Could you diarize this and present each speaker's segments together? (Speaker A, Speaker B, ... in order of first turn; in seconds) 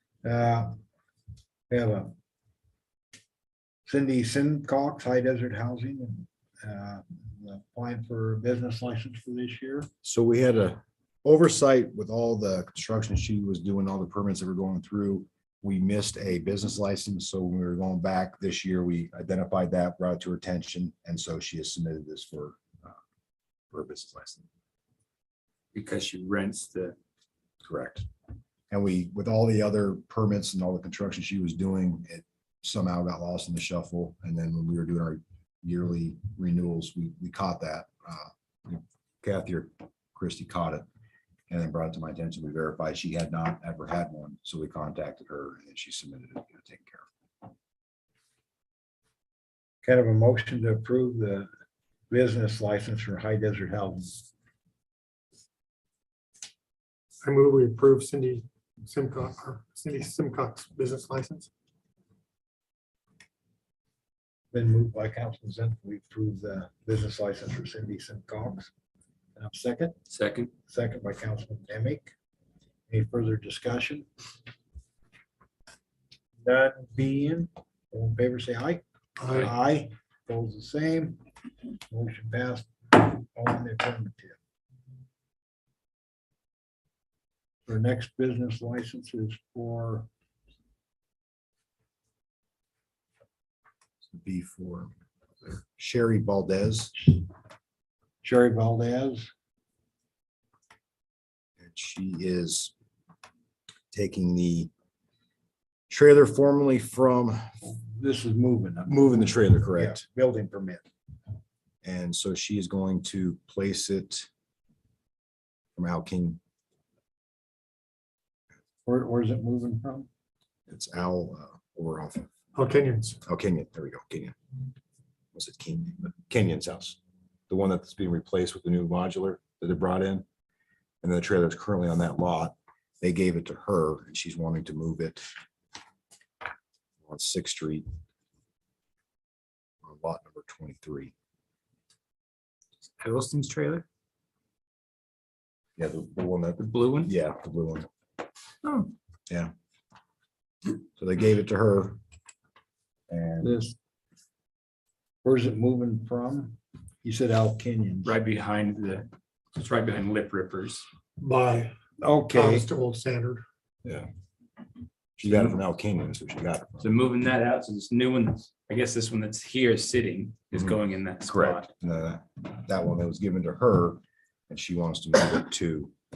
Speaker A: 0.2-0.7, 1.7-2.1, 3.9-9.9, 49.8-51.5, 52.1-54.3, 64.5-68.7, 69.3-69.9, 70.7-72.1, 72.9-74.0, 76.4-81.2, 81.9-84.4, 87.7-90.1, 98.2-99.3, 107.6-110.8, 118.8-120.1, 153.4-153.7, 155.2-158.2, 162.0-162.7
Speaker B: 10.0-22.9, 23.7-24.4, 27.6-28.1, 28.7-40.9, 41.5-47.1, 94.1-94.9, 95.4-97.0, 101.6-102.7, 103.9-104.7, 105.9-107.4, 108.9-110.0, 111.8-114.3, 115.8-116.4, 120.7-122.3, 123.2-124.3, 125.3-127.0, 127.5-130.2, 131.0-135.3, 137.0-137.8, 139.8-141.1, 145.8-147.9, 150.9-152.0, 153.1-153.5, 165.2-166.9, 171.2-175.9
Speaker C: 25.7-26.9, 70.1-70.5, 143.0-143.8, 146.6-147.1, 148.6-148.9, 158.0-160.8, 166.8-171.7
Speaker D: 57.2-61.5, 79.2-79.5, 122.5-123.2, 161.2-161.7, 162.3-163.4